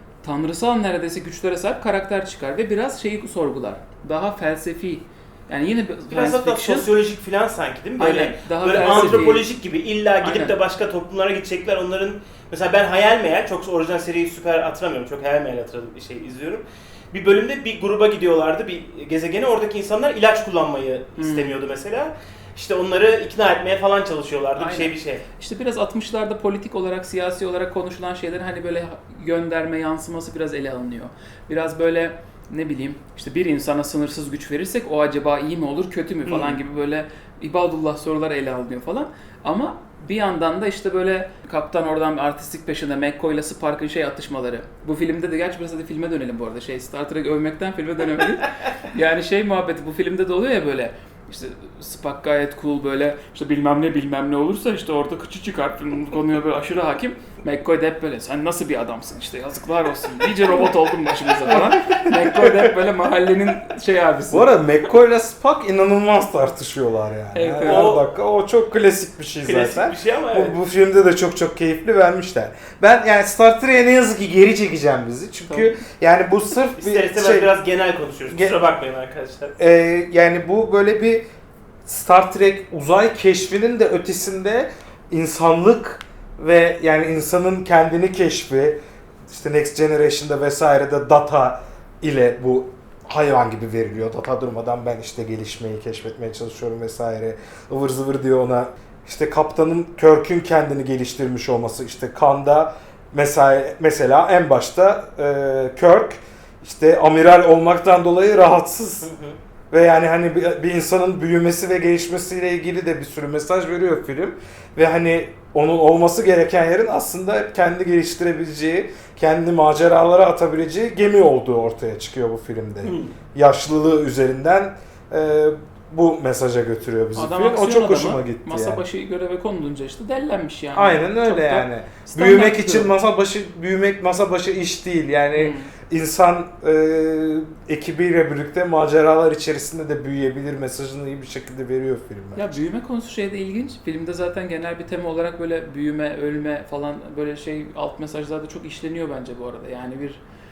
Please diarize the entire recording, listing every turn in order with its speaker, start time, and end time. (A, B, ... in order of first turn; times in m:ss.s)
0:00.2-0:06.9 A
0:06.1-0:25.2 B
0:08.0-0:09.4 A
0:10.2-0:10.6 A
0:21.2-0:21.6 A
0:24.6-1:04.5 A
0:36.2-0:36.6 B
1:01.5-1:02.7 C
1:04.3-1:17.5 C
1:07.3-1:07.9 A
1:07.6-1:08.0 B
1:09.4-1:10.5 B
1:15.5-1:15.8 A
1:16.8-1:19.5 B
1:18.3-1:18.6 C
1:19.6-1:21.2 C
1:21.8-1:49.1 C
1:49.1-1:49.4 B
1:49.7-2:08.8 C
2:02.8-2:03.1 B
2:07.2-2:12.9 A
2:10.8-2:22.6 C
2:15.4-2:15.7 A
2:22.4-2:30.2 A